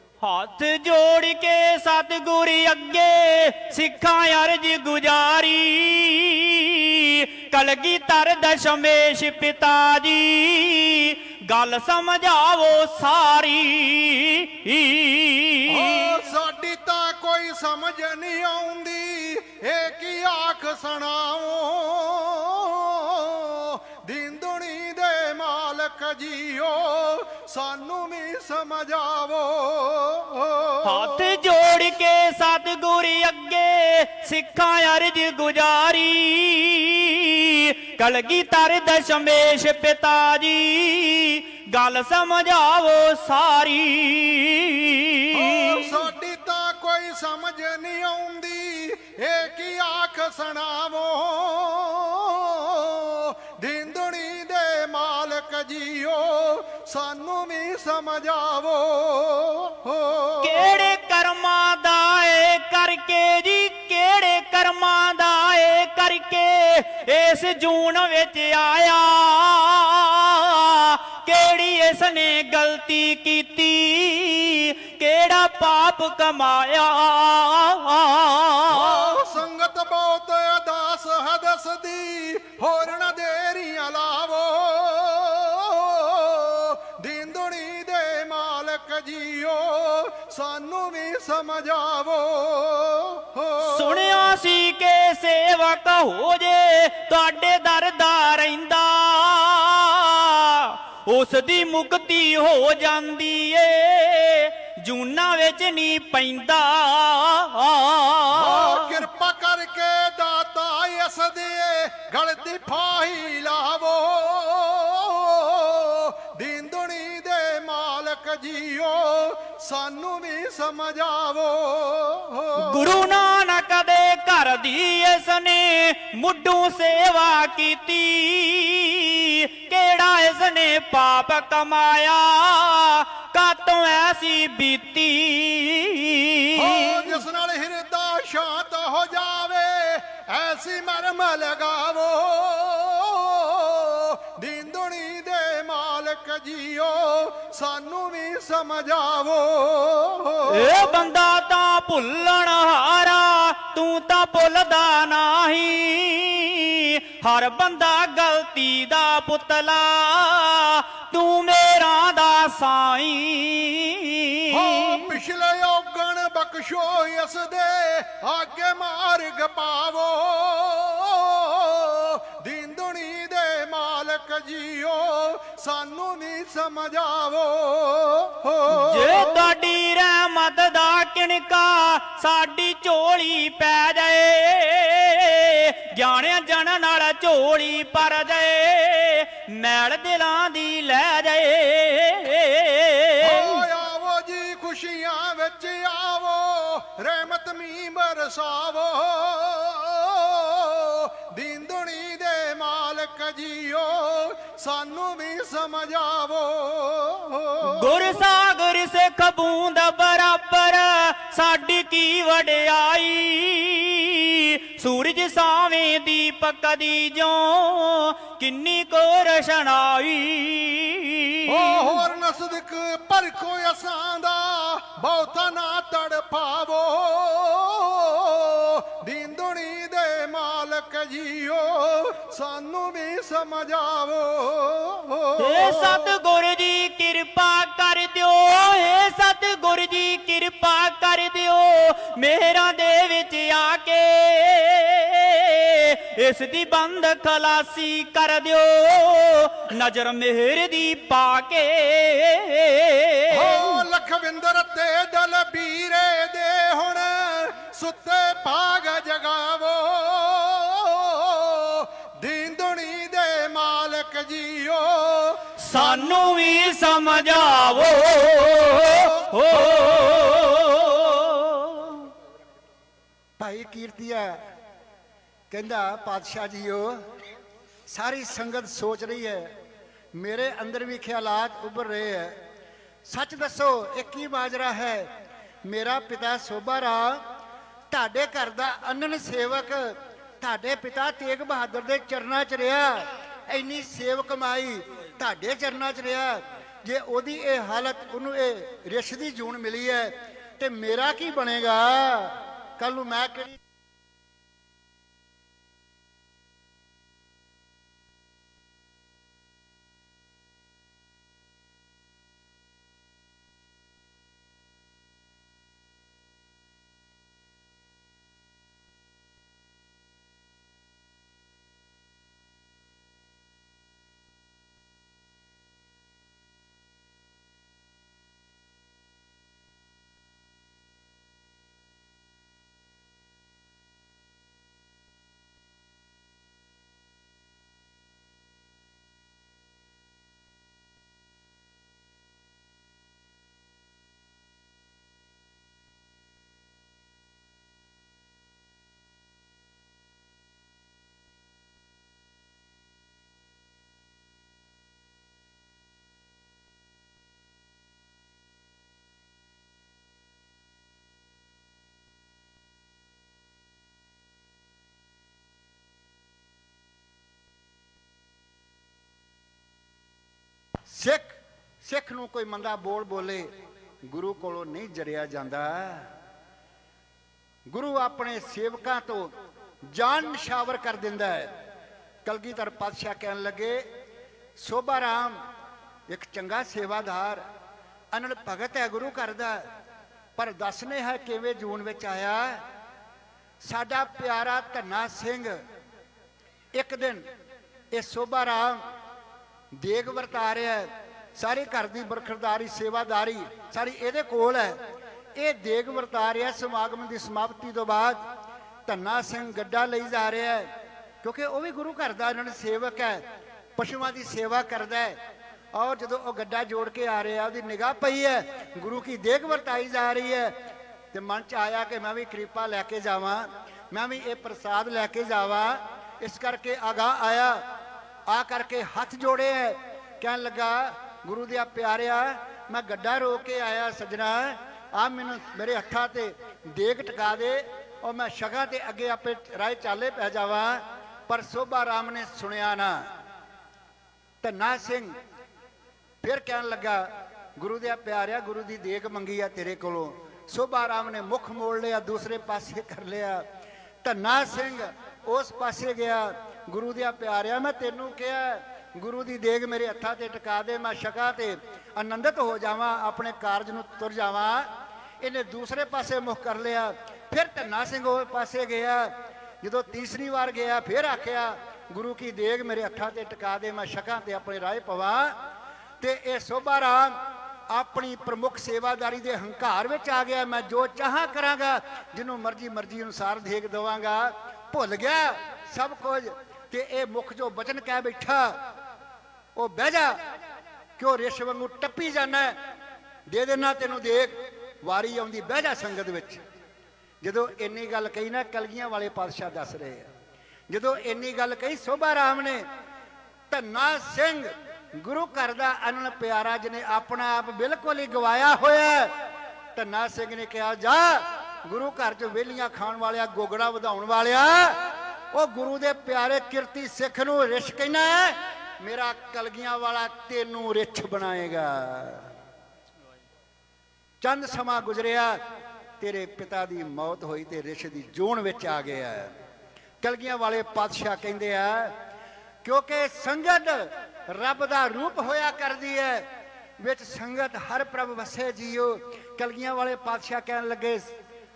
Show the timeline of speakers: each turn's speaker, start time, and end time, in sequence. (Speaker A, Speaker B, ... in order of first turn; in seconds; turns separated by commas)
Speaker A: 0.2-16.1, Speaker B: 15.7-31.2, Speaker A: 30.8-46.0, Speaker B: 45.3-60.7, Speaker A: 60.4-79.2, Speaker B: 78.7-94.2, Speaker A: 93.6-109.0, Speaker B: 108.3-123.1, Speaker A: 122.5-137.2, Speaker B: 136.6-150.9, Speaker A: 150.5-165.1, Speaker B: 164.5-179.5, Speaker A: 178.7-193.6, Speaker B: 193.2-208.2, Speaker A: 207.6-221.9, Speaker B: 221.5-236.1, Speaker A: 235.4-253.8, Speaker B: 253.3-266.2, Speaker A: 265.6-272.1, Speaker C: 273.4-274.4, Speaker C: 275.5-277.0, Speaker C: 277.9-279.5, Speaker C: 280.1-282.4, Speaker C: 283.0-285.1, Speaker C: 285.6-287.2, Speaker C: 287.9-303.6, Speaker C: 370.9-373.5, Speaker C: 374.1-376.1, Speaker C: 377.7-379.3, Speaker C: 379.8-381.5, Speaker C: 382.2-383.9, Speaker C: 384.6-385.4, Speaker C: 386.1-387.4, Speaker C: 388.1-389.6, Speaker C: 390.4-392.6, Speaker C: 393.6-395.6, Speaker C: 396.7-397.2, Speaker C: 397.9-398.8, Speaker C: 399.7-404.8, Speaker C: 405.3-408.2, Speaker C: 408.9-410.7, Speaker C: 411.2-413.2, Speaker C: 413.8-415.2, Speaker C: 415.7-420.5, Speaker C: 421.1-427.6, Speaker C: 428.3-443.1, Speaker C: 444.4-445.1, Speaker C: 446.2-453.4, Speaker C: 454.0-464.7, Speaker C: 465.2-475.4, Speaker C: 476.0-488.6, Speaker C: 489.5-490.1, Speaker C: 491.0-492.6, Speaker C: 493.3-496.4, Speaker C: 497.2-500.1, Speaker C: 500.7-502.6, Speaker C: 503.5-509.1, Speaker C: 509.7-514.8, Speaker C: 515.3-522.3, Speaker C: 524.2-525.4, Speaker C: 526.0-529.3, Speaker C: 530.0-532.0, Speaker C: 532.6-536.3, Speaker C: 536.8-541.1